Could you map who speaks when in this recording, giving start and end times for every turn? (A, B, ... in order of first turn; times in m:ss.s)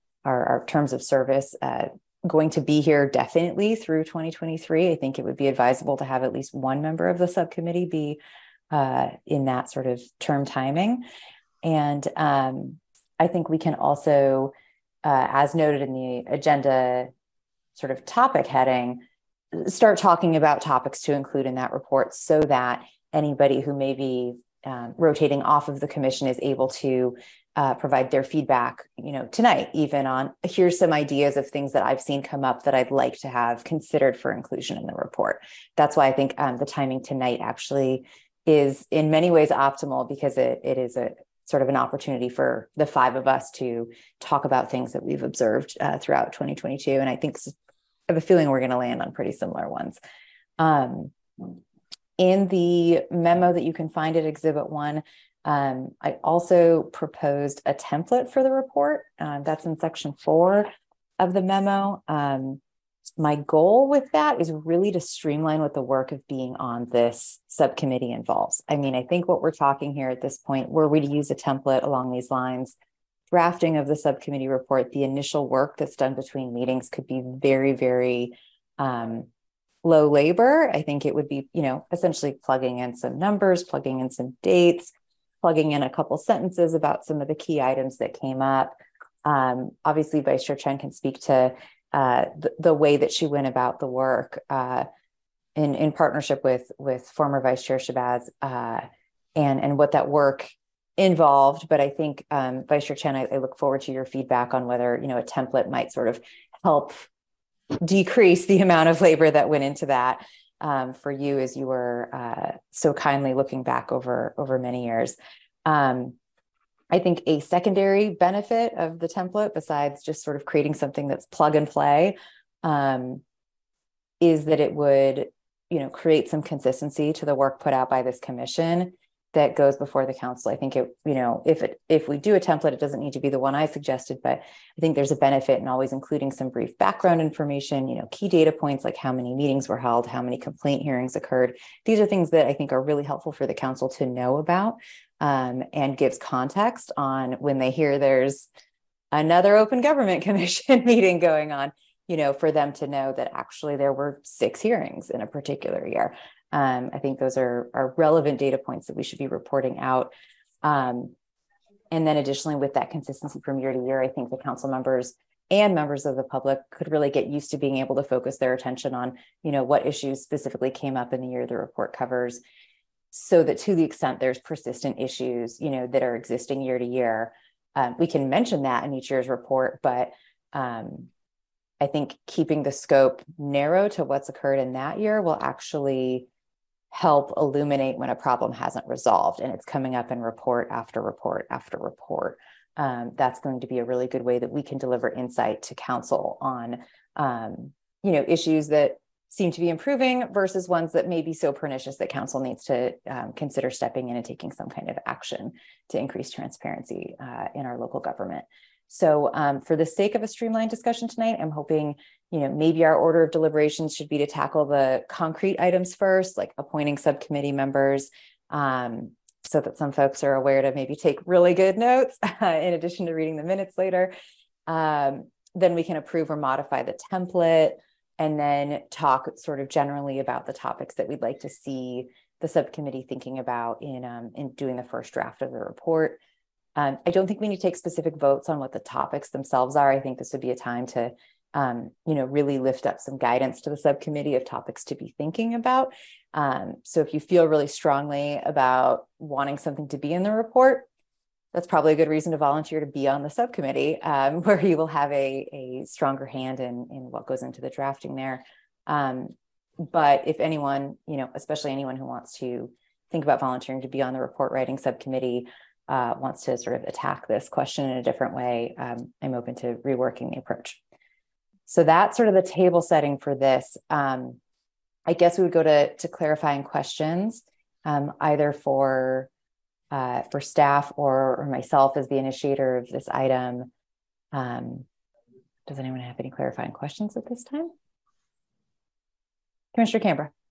0:00.2-0:08.2 A
0:08.7-0:11.0 A
0:11.6-0:14.5 A
0:15.0-0:17.1 A
0:17.8-0:47.5 A
0:48.1-0:50.0 A
0:50.6-0:51.5 A
0:52.2-1:02.6 A
1:03.2-1:12.7 A
1:13.3-1:19.3 A
1:19.8-1:34.8 A
1:35.6-1:38.8 A
1:39.4-1:47.1 A
1:47.8-1:56.2 A
1:56.9-2:03.2 A
2:04.2-2:28.5 A
2:29.1-2:41.1 A
2:41.9-2:52.4 A
2:53.1-3:01.1 A
3:01.8-3:06.3 A
3:06.9-3:44.1 A
3:44.7-3:56.2 A
3:56.8-4:10.9 A
4:11.5-4:30.8 A
4:31.7-4:34.4 A
4:35.1-4:39.3 A
4:39.9-4:43.7 A
4:44.3-4:44.8 A
4:45.7-4:47.7 A
4:49.7-4:50.3 A